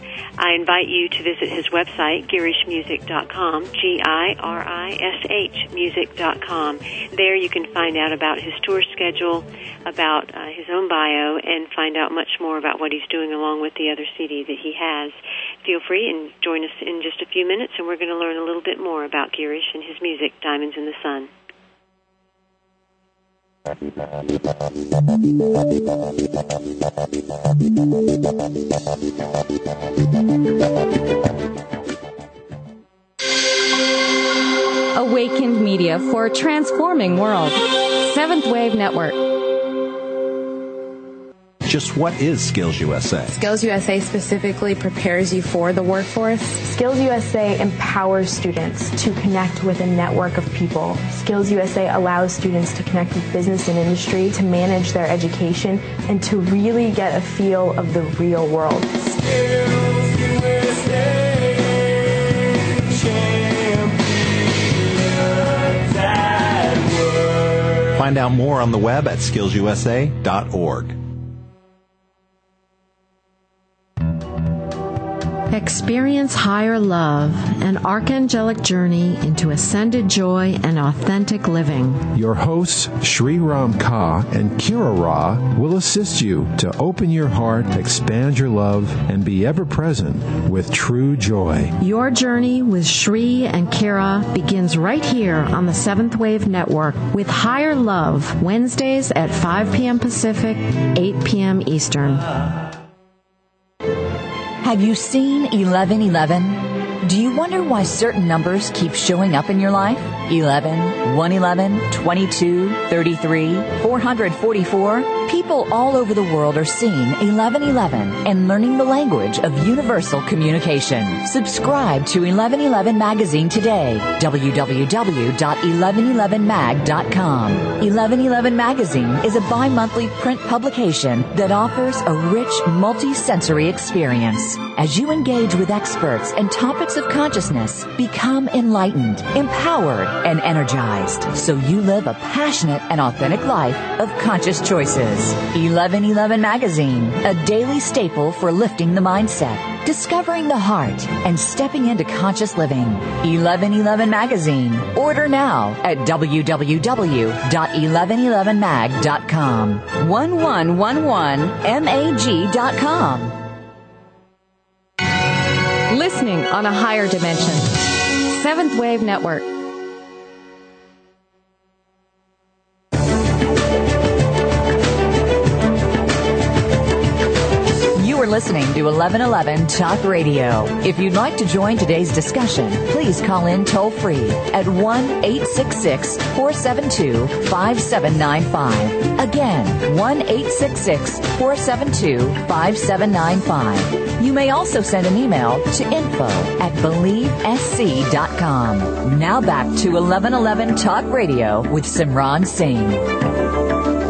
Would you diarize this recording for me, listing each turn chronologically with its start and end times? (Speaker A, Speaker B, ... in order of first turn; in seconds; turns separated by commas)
Speaker A: 0.4-21.3, Speaker B: 34.9-39.2, Speaker C: 41.6-43.3, Speaker D: 43.3-46.7, Speaker E: 46.6-59.2, Speaker C: 67.9-71.0, Speaker F: 75.5-82.0, Speaker G: 82.1-91.7, Speaker F: 91.8-102.3, Speaker H: 104.6-163.4, Speaker B: 165.9-169.4, Speaker H: 177.9-203.1